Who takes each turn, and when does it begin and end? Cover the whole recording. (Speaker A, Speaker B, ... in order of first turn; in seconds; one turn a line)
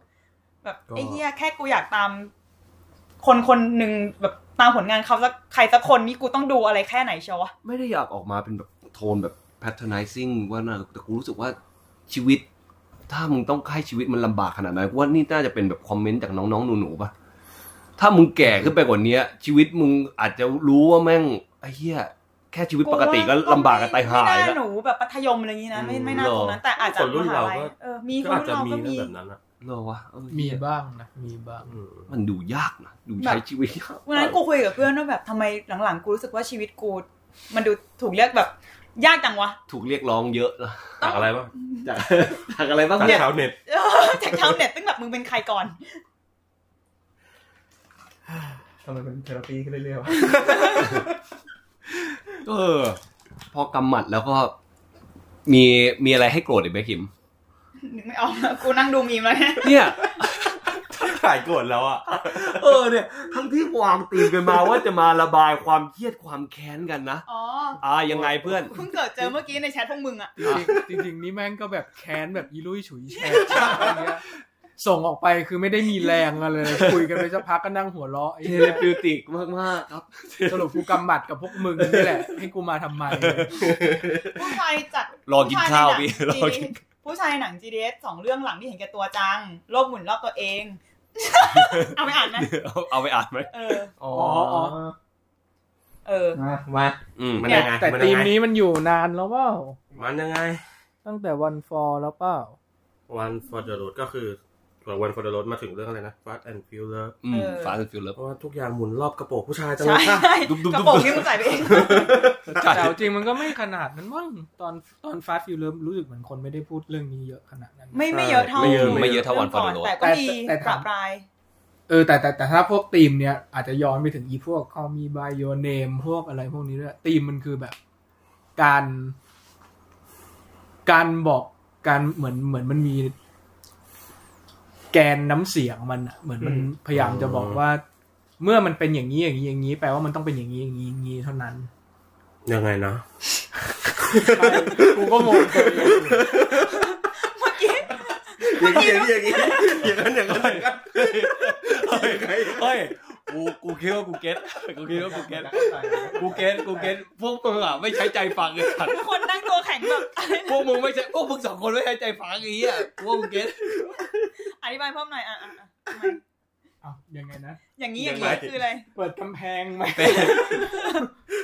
Speaker A: 0.6-2.3
Speaker B: 0.9-1.2
Speaker A: 3.2-7.5
Speaker C: 7.6-11.6
Speaker C: 12.1-12.4
Speaker C: 13.1-17.1
Speaker C: 18.0-24.6
Speaker A: 22.8-29.1
Speaker B: 25.8-29.4
Speaker C: 25.9-26.6
Speaker C: 29.6-30.6
Speaker D: 30.3-31.7
Speaker B: 31.7-32.1
Speaker C: 32.1-34.4
Speaker A: 33.2-33.4
Speaker A: 34.1-39.6
Speaker C: 39.7-41.0
Speaker B: 41.0-41.5
Speaker A: 41.0-41.9
Speaker C: 41.8-43.3
Speaker B: 43.0-43.6
Speaker A: 43.0-45.8
Speaker E: 48.8-51.0
Speaker A: 50.2-51.0
Speaker C: 52.3-53.0
Speaker C: 53.5-54.5
Speaker C: 55.5-57.1
Speaker A: 57.8-60.0
Speaker C: 59.6-60.9
Speaker B: 60.9-62.8
Speaker C: 62.1-67.3
Speaker B: 64.3-64.6
Speaker A: 67.3-67.8
Speaker C: 67.8-68.8
Speaker A: 68.6-70.3
Speaker D: 70.4-74.2
Speaker C: 70.4-70.8
Speaker A: 73.2-74.0
Speaker C: 73.5-74.0
Speaker D: 74.8-78.9
Speaker C: 76.7-77.2
Speaker C: 78.4-80.9
Speaker D: 80.5-83.6
Speaker C: 81.8-82.2
Speaker B: 83.5-84.4
Speaker A: 84.3-92.5
Speaker C: 85.3-86.8
Speaker C: 91.4-93.8
Speaker A: 93.5-94.0
Speaker E: 94.0-95.0
Speaker D: 94.1-94.8
Speaker A: 96.0-96.4
Speaker E: 96.3-97.0
Speaker C: 97.2-98.3
Speaker A: 97.4-97.8
Speaker B: 97.4-98.3
Speaker D: 97.5-99.8
Speaker B: 100.0-100.6
Speaker D: 101.0-102.6
Speaker B: 103.1-107.2
Speaker C: 107.2-108.2
Speaker A: 107.3-107.8
Speaker B: 108.2-110.4
Speaker A: 109.8-112.2
Speaker C: 110.4-113.2
Speaker B: 111.6-112.8
Speaker D: 112.6-118.1
Speaker A: 117.9-121.3
Speaker B: 118.1-119.3
Speaker C: 118.5-120.0
Speaker D: 120.0-120.9
Speaker D: 121.9-127.8
Speaker D: 128.6-129.2
Speaker D: 130.9-133.2
Speaker D: 134.9-137.8
Speaker E: 136.4-136.7
Speaker B: 136.9-137.6
Speaker D: 138.4-141.7
Speaker B: 142.5-143.0
Speaker B: 143.9-146.9
Speaker D: 144.1-146.2
Speaker A: 146.2-149.9
Speaker B: 148.4-152.8
Speaker C: 150.2-159.1
Speaker E: 154.9-156.9
Speaker A: 158.7-160.7
Speaker C: 160.0-164.3
Speaker A: 164.4-166.2
Speaker D: 166.8-167.6
Speaker A: 167.8-168.9
Speaker C: 168.0-168.5
Speaker D: 168.9-170.9
Speaker C: 169.9-170.7
Speaker A: 170.6-171.1